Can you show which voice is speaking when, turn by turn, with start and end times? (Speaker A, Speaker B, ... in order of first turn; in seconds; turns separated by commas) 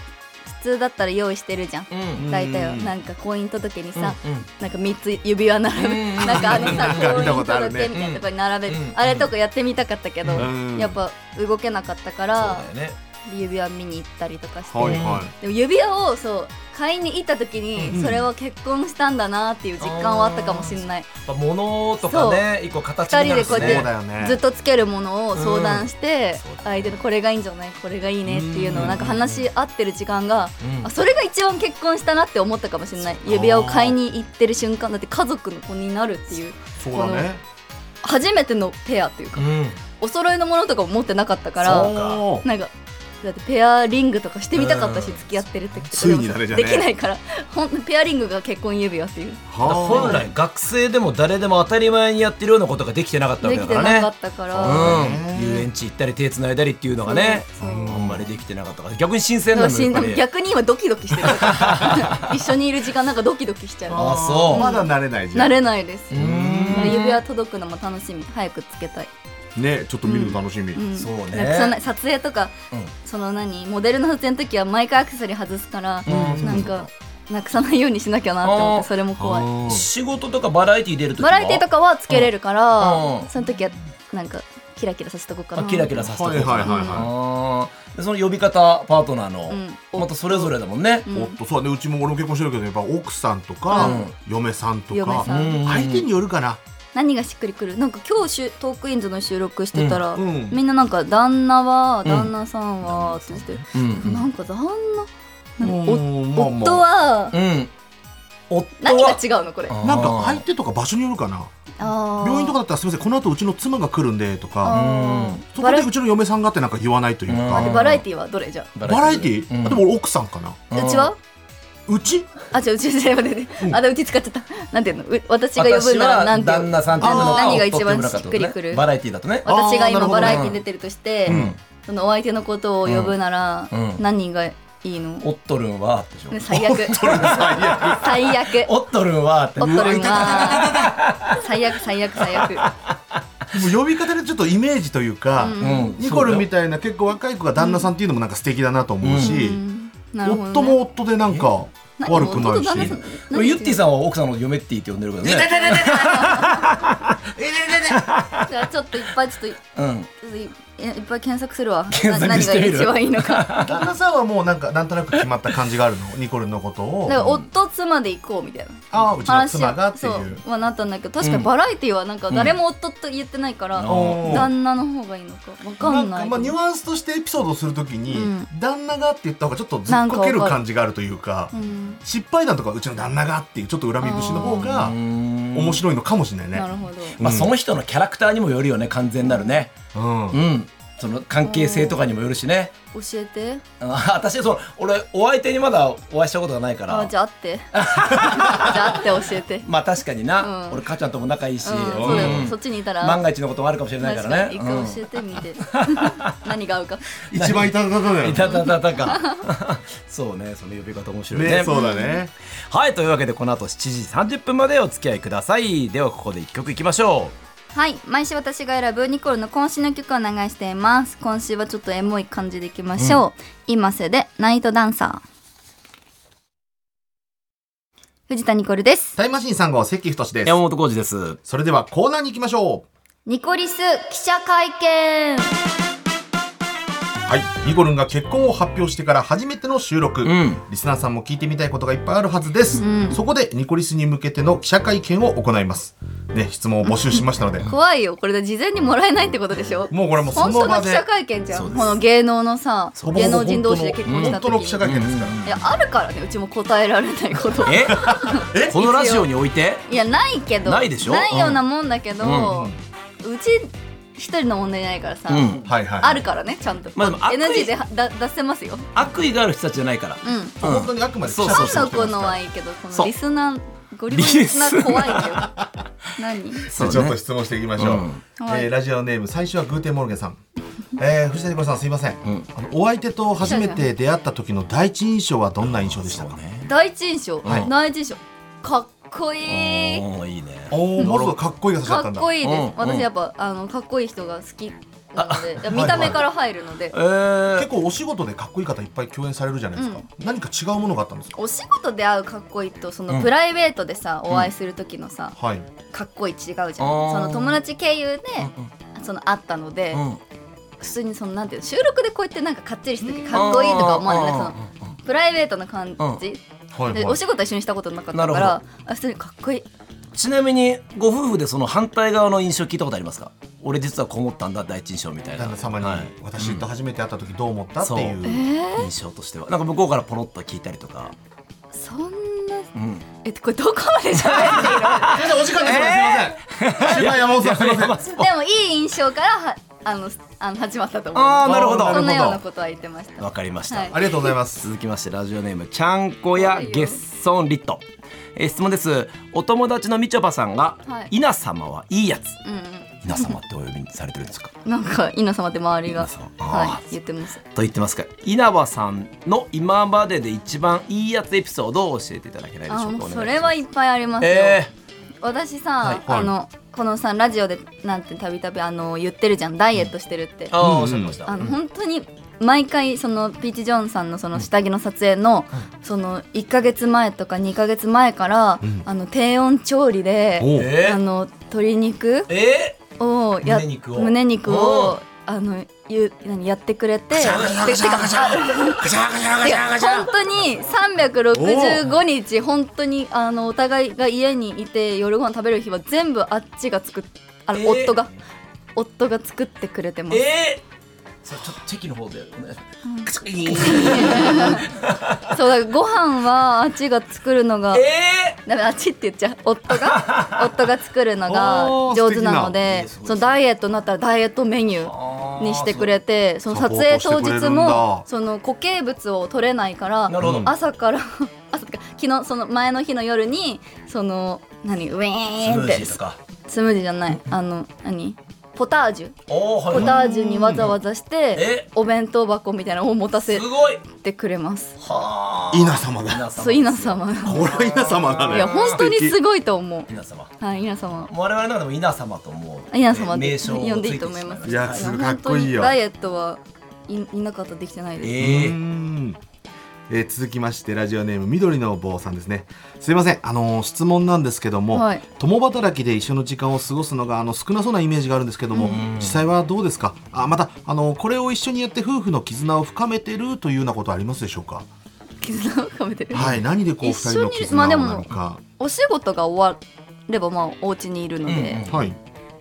Speaker A: 0.5-12.7, Speaker B: 1.9-2.3, Speaker C: 2.1-2.9, Speaker B: 4.0-4.5, Speaker B: 5.8-7.3, Speaker C: 6.2-7.9, Speaker B: 7.9-9.3, Speaker C: 10.3-11.0, Speaker B: 12.3-12.9, Speaker A: 13.2-21.1, Speaker C: 14.7-15.3, Speaker B: 14.8-15.2, Speaker C: 17.8-18.2, Speaker B: 17.9-18.2, Speaker B: 19.8-23.9, Speaker A: 22.0-22.4, Speaker A: 23.1-37.3, Speaker C: 23.2-24.4, Speaker B: 25.3-26.9, Speaker C: 28.2-29.1, Speaker B: 28.7-29.4, Speaker B: 30.6-30.9, Speaker C: 33.2-33.9, Speaker C: 36.8-37.4, Speaker A: 38.0-42.7, Speaker B: 39.4-39.8, Speaker C: 41.6-42.4, Speaker B: 41.6-42.2, Speaker A: 43.2-50.2, Speaker B: 44.5-45.3, Speaker C: 45.9-46.9, Speaker C: 49.5-50.3, Speaker B: 49.6-60.2, Speaker A: 53.4-55.0, Speaker C: 54.5-55.7, Speaker A: 57.0-58.0, Speaker C: 57.6-58.3, Speaker A: 59.5-69.1, Speaker B: 61.2-62.4, Speaker C: 63.9-65.6, Speaker B: 63.9-64.7, Speaker B: 66.1-67.2, Speaker C: 66.2-67.0, Speaker C: 69.5-70.8, Speaker A: 70.0-79.5, Speaker B: 70.9-71.8, Speaker B: 76.0-76.8, Speaker C: 76.1-76.7, Speaker B: 78.4-78.9, Speaker C: 79.2-79.8, Speaker B: 79.6-83.3, Speaker A: 81.2-85.9, Speaker B: 85.5-91.0, Speaker C: 86.0-87.1, Speaker A: 86.6-87.0, Speaker A: 89.5-90.5, Speaker A: 91.0-91.3, Speaker C: 91.1-96.6, Speaker A: 93.7-94.0, Speaker B: 93.7-94.1, Speaker A: 94.9-95.6, Speaker B: 95.2-96.1, Speaker A: 96.9-107.3, Speaker B: 99.7-100.0, Speaker C: 100.1-100.6, Speaker B: 102.0-102.3, Speaker B: 102.8-104.3, Speaker C: 105.6-106.8, Speaker B: 107.3-107.7, Speaker B: 108.5-110.4, Speaker A: 108.8-109.7, Speaker C: 109.8-111.5, Speaker A: 111.8-112.6, Speaker C: 112.2-114.8, Speaker A: 114.6-115.9, Speaker B: 114.7-115.4, Speaker C: 115.5-117.8, Speaker B: 117.3-118.0, Speaker A: 117.5-118.7, Speaker B: 118.7-119.8, Speaker C: 118.8-120.6, Speaker B: 120.7-121.1, Speaker A: 120.7-121.2, Speaker C: 121.9-122.4, Speaker A: 122.5-128.8, Speaker B: 125.5-129.5, Speaker C: 127.0-127.6, Speaker A: 129.4-135.3, Speaker C: 129.4-130.6, Speaker B: 130.2-130.6, Speaker B: 131.2-131.6, Speaker C: 131.3-131.5, Speaker B: 132.8-133.1, Speaker B: 133.7-134.0, Speaker B: 135.2-141.5, Speaker A: 136.3-138.7, Speaker C: 136.5-138.3, Speaker A: 139.6-142.7, Speaker C: 139.6-141.0, Speaker B: 142.3-143.6, Speaker C: 143.5-149.6, Speaker A: 145.4-145.9, Speaker B: 145.6-146.5, Speaker A: 147.6-147.8, Speaker B: 149.0-149.4, Speaker A: 149.2-150.8, Speaker C: 150.2-152.9, Speaker A: 152.0-153.8, Speaker B: 152.1-158.5, Speaker C: 155.2-156.5, Speaker A: 155.6-156.7, Speaker C: 157.3-158.0, Speaker A: 158.4-159.6, Speaker B: 159.7-160.1, Speaker A: 160.2-163.6, Speaker B: 161.9-163.8, Speaker C: 163.6-167.2, Speaker A: 167.1-176.6, Speaker B: 167.1-167.4, Speaker C: 168.9-170.4, Speaker B: 171.2-171.5, Speaker B: 172.3-172.6, Speaker B: 173.8-174.5, Speaker C: 173.9-174.5, Speaker C: 175.8-185.0, Speaker A: 178.1-178.5, Speaker A: 179.9-180.6, Speaker A: 181.5-182.0, Speaker A: 184.0-184.7, Speaker B: 184.2-185.8, Speaker C: 185.5-186.7, Speaker A: 186.5-187.2, Speaker B: 187.2-189.7, Speaker C: 187.2-187.5, Speaker A: 189.2-189.6, Speaker C: 189.9-190.4, Speaker B: 190.3-192.7, Speaker A: 191.4-192.0, Speaker A: 192.9-193.6, Speaker B: 193.8-197.1, Speaker A: 196.9-199.7, Speaker B: 197.7-199.1, Speaker C: 198.2-198.7, Speaker B: 199.6-206.4, Speaker A: 200.4-200.8, Speaker A: 201.6-203.2, Speaker C: 201.9-202.5, Speaker A: 204.0-207.1, Speaker B: 207.3-211.7, Speaker C: 207.3-208.5, Speaker A: 208.4-209.4, Speaker C: 211.3-212.3, Speaker A: 211.7-212.2, Speaker B: 212.7-217.3, Speaker A: 217.7-225.2, Speaker A: 228.3-229.2, Speaker C: 229.2-230.6, Speaker B: 230.4-231.4, Speaker C: 231.4-232.8, Speaker A: 233.2-235.5, Speaker C: 237.2-247.7, Speaker B: 240.2-240.6, Speaker A: 242.8-243.2, Speaker A: 246.8-254.8, Speaker C: 249.9-251.1, Speaker B: 251.5-252.0, Speaker C: 253.0-255.5, Speaker B: 254.1-255.6, Speaker A: 255.4-259.3, Speaker B: 257.6-259.9, Speaker C: 258.0-258.7, Speaker A: 259.9-268.9, Speaker B: 260.6-261.6, Speaker B: 262.2-262.6, Speaker C: 262.5-262.8, Speaker B: 265.3-265.7, Speaker C: 265.6-266.2, Speaker B: 266.9-267.7, Speaker B: 268.9-272.3, Speaker A: 270.2-270.6, Speaker C: 270.6-272.4, Speaker A: 271.4-275.5, Speaker B: 274.1-275.6, Speaker A: 276.2-276.7, Speaker B: 276.6-277.2, Speaker C: 276.7-280.4, Speaker B: 277.8-278.2, Speaker A: 278.4-278.7, Speaker C: 281.0-286.4, Speaker A: 283.4-283.9, Speaker B: 285.6-286.7, Speaker A: 286.6-290.0, Speaker C: 287.4-287.7, Speaker B: 287.4-287.7, Speaker B: 289.4-291.3, Speaker C: 290.7-292.3, Speaker A: 291.8-296.9, Speaker B: 292.4-293.1, Speaker B: 295.1-296.2, Speaker C: 295.7-296.2, Speaker B: 296.9-297.7, Speaker C: 297.5-301.4, Speaker A: 299.8-300.1, Speaker A: 301.4-305.4, Speaker C: 305.4-305.7, Speaker A: 305.9-310.0, Speaker B: 306.8-307.6, Speaker B: 308.4-308.7, Speaker B: 309.9-310.2, Speaker A: 310.8-316.4, Speaker C: 313.0-313.9, Speaker B: 313.3-314.9, Speaker C: 316.7-317.2, Speaker A: 316.9-319.6, Speaker B: 318.1-318.6, Speaker B: 320.1-326.7, Speaker C: 325.4-328.4, Speaker B: 327.8-328.2, Speaker A: 328.2-328.9, Speaker B: 328.8-331.1, Speaker A: 331.7-332.7, Speaker B: 332.7-333.1, Speaker A: 333.2-335.4, Speaker B: 334.1-338.3, Speaker C: 335.1-338.0, Speaker A: 338.2-344.3, Speaker B: 341.1-342.3, Speaker C: 341.4-342.4, Speaker B: 343.2-347.8, Speaker C: 343.9-344.7, Speaker A: 346.3-347.0, Speaker B: 348.4-352.4, Speaker A: 350.9-351.1, Speaker A: 352.4-353.3, Speaker B: 353.0-354.5, Speaker A: 354.6-357.4, Speaker B: 355.9-356.8, Speaker B: 357.5-363.6, Speaker A: 362.7-364.6, Speaker B: 364.2-364.7, Speaker A: 365.2-370.5, Speaker C: 366.0-366.3, Speaker B: 370.5-371.6, Speaker C: 370.6-371.2, Speaker A: 371.3-382.3, Speaker C: 380.4-380.7, Speaker B: 380.5-381.0, Speaker B: 382.3-382.8, Speaker A: 383.0-388.9, Speaker B: 383.4-384.9, Speaker B: 387.1-390.2, Speaker A: 389.4-398.1, Speaker C: 391.3-391.9, Speaker B: 397.5-398.1, Speaker A: 398.8-400.2, Speaker B: 400.1-400.6, Speaker B: 401.2-405.3, Speaker A: 402.8-404.7, Speaker A: 405.3-407.8, Speaker B: 407.7-408.4, Speaker A: 408.4-429.1, Speaker B: 409.7-410.5, Speaker C: 411.3-412.6, Speaker B: 412.6-413.4, Speaker B: 414.8-415.9, Speaker C: 416.5-418.0, Speaker B: 420.1-420.5, Speaker C: 420.2-420.5, Speaker B: 425.4-426.2, Speaker B: 429.3-430.8, Speaker A: 429.7-434.7, Speaker C: 429.7-430.6, Speaker B: 431.3-431.7, Speaker B: 433.2-433.8, Speaker B: 434.8-438.8, Speaker C: 435.5-436.3, Speaker A: 436.4-437.4, Speaker C: 437.2-439.2, Speaker A: 438.3-441.1, Speaker B: 439.9-440.3, Speaker B: 441.1-444.9, Speaker A: 442.7-448.1, Speaker C: 444.4-445.8, Speaker B: 448.0-448.6, Speaker C: 448.2-449.2, Speaker C: 449.9-464.7, Speaker A: 454.7-455.0, Speaker B: 458.6-459.2, Speaker A: 465.2-466.3, Speaker C: 466.1-468.4, Speaker A: 466.8-471.6, Speaker B: 471.2-471.9, Speaker C: 471.7-472.0